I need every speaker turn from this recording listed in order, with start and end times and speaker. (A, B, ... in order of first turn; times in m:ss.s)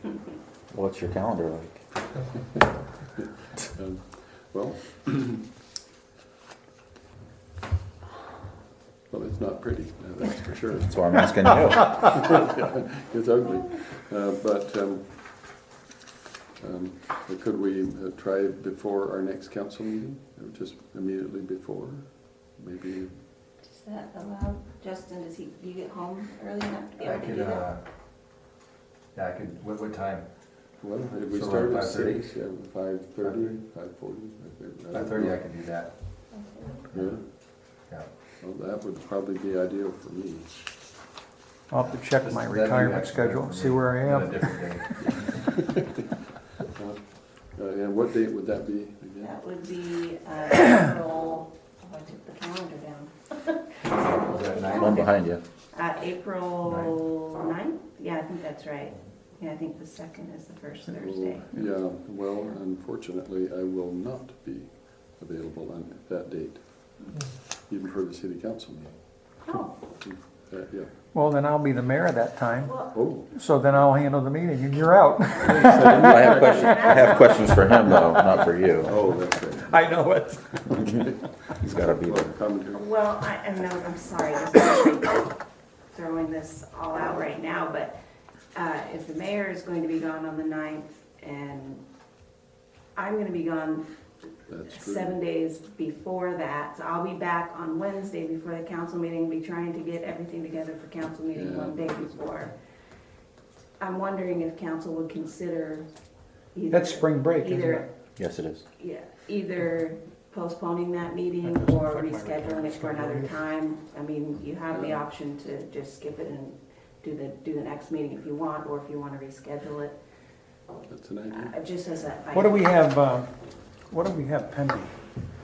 0:00.7-0:01.8 A
0:03.7-0:05.4 B
0:09.1-0:10.9 B
0:10.8-0:12.1 A
0:12.0-0:15.5 B
0:16.6-0:23.2 B
0:23.6-0:27.7 C
0:27.0-0:27.8 D
0:29.1-0:30.2 D
0:30.8-0:35.5 B
0:31.3-0:32.3 D
0:33.2-0:33.6 D
0:34.9-0:36.3 D
0:36.3-0:36.9 C
0:36.9-0:37.2 B
0:38.4-0:40.5 B
0:41.7-0:45.2 E
0:41.8-0:45.3 D
0:46.7-0:49.3 B
0:49.2-1:01.6 C
0:53.8-0:55.0 D
0:54.8-0:55.4 A
0:56.6-0:57.0 D
1:00.9-1:07.0 B
1:07.7-1:10.9 B
1:09.5-1:09.7 C
1:11.1-1:17.0 E
1:12.6-1:13.0 C
1:12.9-1:13.2 B
1:15.5-1:16.5 B
1:15.8-1:19.0 A
1:16.4-1:17.2 C
1:18.8-1:19.8 B
1:19.6-1:20.8 E
1:20.7-1:21.1 B
1:21.6-1:22.3 A
1:21.7-1:22.8 B
1:22.7-1:25.4 C
1:25.9-1:28.0 C
1:28.5-1:31.8 C
1:32.9-1:33.8 C
1:34.5-1:35.1 B
1:34.7-1:42.5 C
1:41.3-1:41.8 B
1:43.8-1:45.9 C
1:46.5-1:47.8 C
1:46.7-1:47.8 E
1:48.2-1:48.6 A
1:48.8-2:00.0 C
1:51.4-1:53.4 E
1:54.7-1:55.0 B
2:00.9-2:01.5 B
2:01.3-2:02.8 C
2:02.3-2:03.3 E
2:03.9-2:05.0 E